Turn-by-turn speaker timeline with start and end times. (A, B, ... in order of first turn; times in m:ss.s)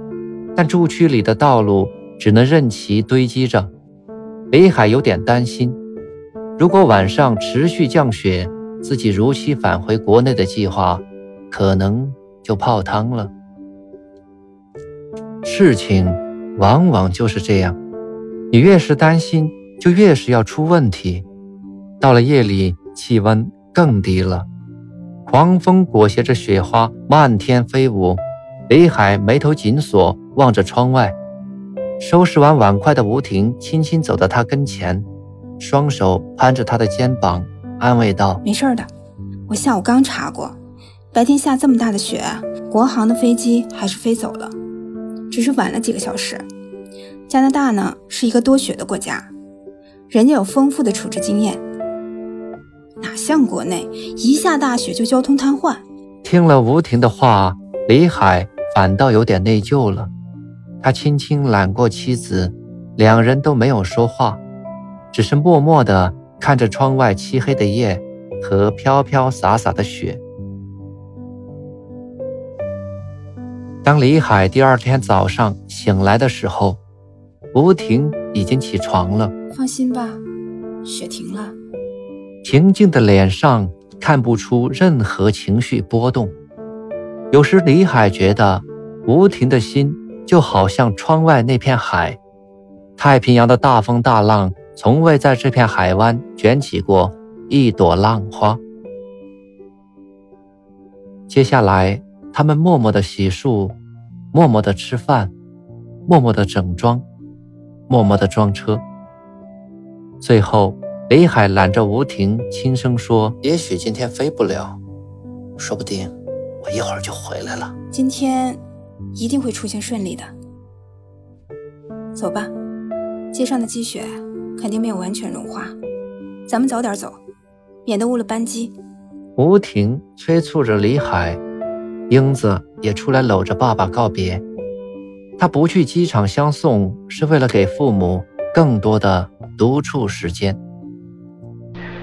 0:00.6-0:03.7 A
0:04.5-0:05.8 A
0:06.6-0:13.3 A
0:15.4-0:17.8 A
0:18.5-0:21.3 A
0:22.0-0:24.5 A
0:25.3-0:31.2 A
0:32.0-0:35.1 A
0:35.6-0:38.4 A
0:38.4-0:38.9 B
0:39.5-0:40.6 B
0:41.1-0:44.6 B
0:45.3-0:46.5 B
0:47.3-0:49.3 B
0:50.1-0:51.6 B
0:53.0-0:55.8 B
0:56.2-1:00.1 A
1:00.8-1:04.4 A
1:05.1-1:10.2 A
1:13.8-1:16.8 A
1:17.5-1:19.3 A
1:19.5-1:20.2 B
1:20.8-1:21.6 B
1:22.4-1:26.3 A
1:27.3-1:32.2 A
1:33.0-1:38.6 A
1:41.3-1:43.8 A
1:44.3-1:45.3 A
1:46.1-1:47.0 A
1:47.9-1:48.8 A
1:50.2-1:54.8 A
1:55.6-1:57.8 A
1:57.9-1:58.6 B
1:59.2-2:00.3 B
2:02.2-2:02.5 B
2:03.3-2:05.8 B
2:06.5-2:07.2 B
2:07.9-2:08.7 B
2:09.4-2:11.4 A
2:12.1-2:14.4 A
2:15.4-2:20.6 A